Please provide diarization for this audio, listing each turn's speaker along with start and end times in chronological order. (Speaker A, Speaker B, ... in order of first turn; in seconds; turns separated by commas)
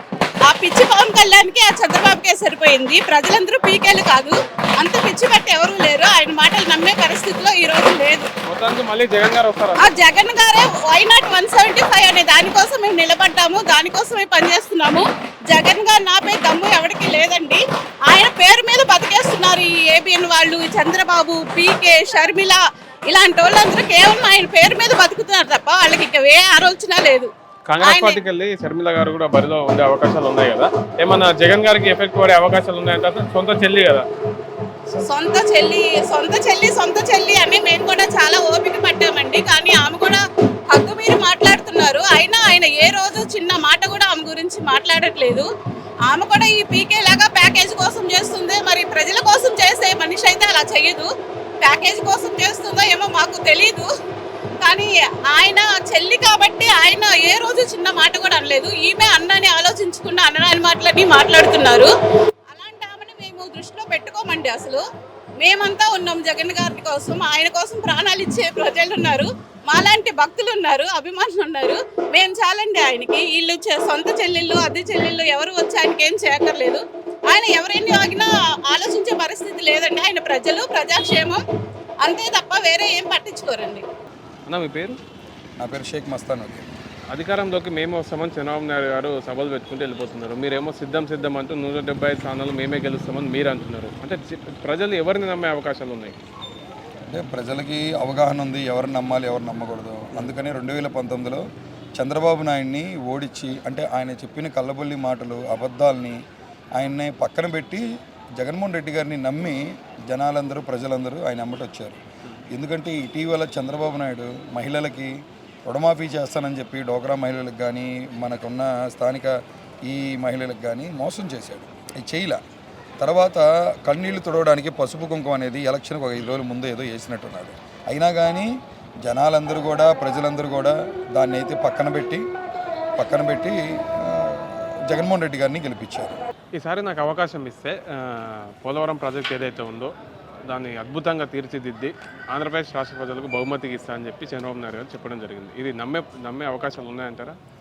Speaker A: 0.5-8.3, Speaker B: 8.5-9.9, Speaker A: 9.8-27.3, Speaker B: 27.7-34.0, Speaker A: 27.8-28.2, Speaker A: 35.0-45.5, Speaker A: 46.1-51.1, Speaker A: 51.6-53.9, Speaker A: 54.6-61.9, Speaker A: 62.5-64.8, Speaker A: 65.4-81.4, Speaker A: 82.0-83.8, Speaker B: 84.5-85.0, Speaker C: 85.6-86.7, Speaker B: 87.1-96.2, Speaker C: 97.1-101.5, Speaker C: 102.0-106.2, Speaker C: 106.8-107.8, Speaker C: 108.4-112.0, Speaker C: 112.5-122.4, Speaker C: 123.0-128.5, Speaker C: 129.0-132.3, Speaker C: 133.0-136.1, Speaker B: 136.6-139.9, Speaker B: 140.5-147.3